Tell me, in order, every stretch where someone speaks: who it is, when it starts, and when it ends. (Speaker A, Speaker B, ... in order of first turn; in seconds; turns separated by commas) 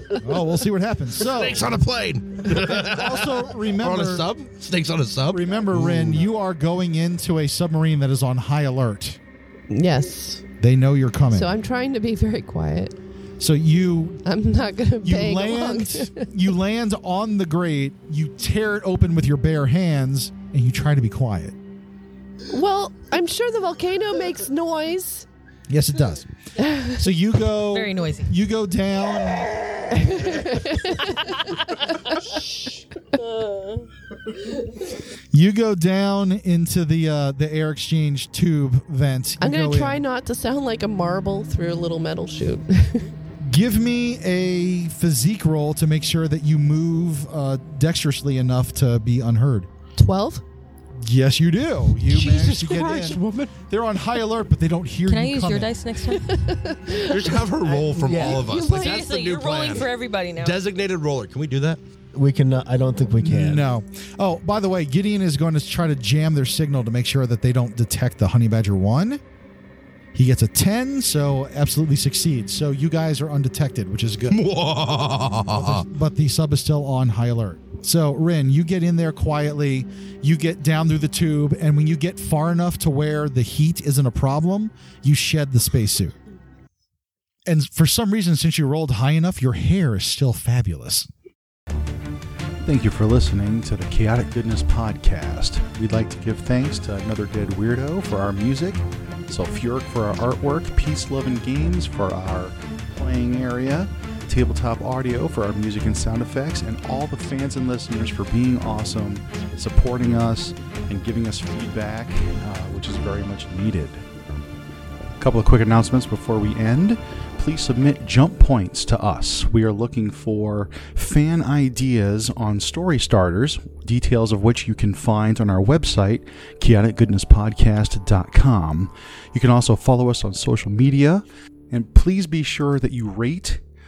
Speaker A: 0.2-1.7, Speaker B: 1.2-6.2, Speaker A: 2.5-4.3, Speaker A: 5.3-9.2, Speaker C: 9.7-10.4, Speaker A: 10.6-11.5, Speaker C: 11.3-13.0, Speaker A: 13.4-14.2, Speaker C: 14.2-16.3, Speaker A: 15.0-21.6, Speaker C: 22.5-25.3, Speaker A: 25.7-26.3, Speaker C: 26.6-27.0, Speaker A: 26.9-29.6, Speaker D: 27.7-28.3, Speaker C: 29.9-31.5, Speaker A: 35.3-40.0, Speaker C: 39.4-43.1, Speaker A: 43.4-49.7, Speaker C: 50.0-50.4, Speaker A: 51.0-55.7, Speaker B: 52.1-53.6, Speaker D: 55.1-56.4, Speaker C: 56.1-59.1, Speaker B: 57.0-61.8, Speaker E: 57.7-58.5, Speaker D: 58.6-60.6, Speaker E: 62.1-63.7, Speaker A: 63.2-69.2, Speaker A: 70.2-74.4, Speaker B: 74.3-75.8, Speaker A: 75.5-86.2, Speaker A: 87.5-91.1, Speaker F: 92.6-114.0, Speaker F: 115.2-133.6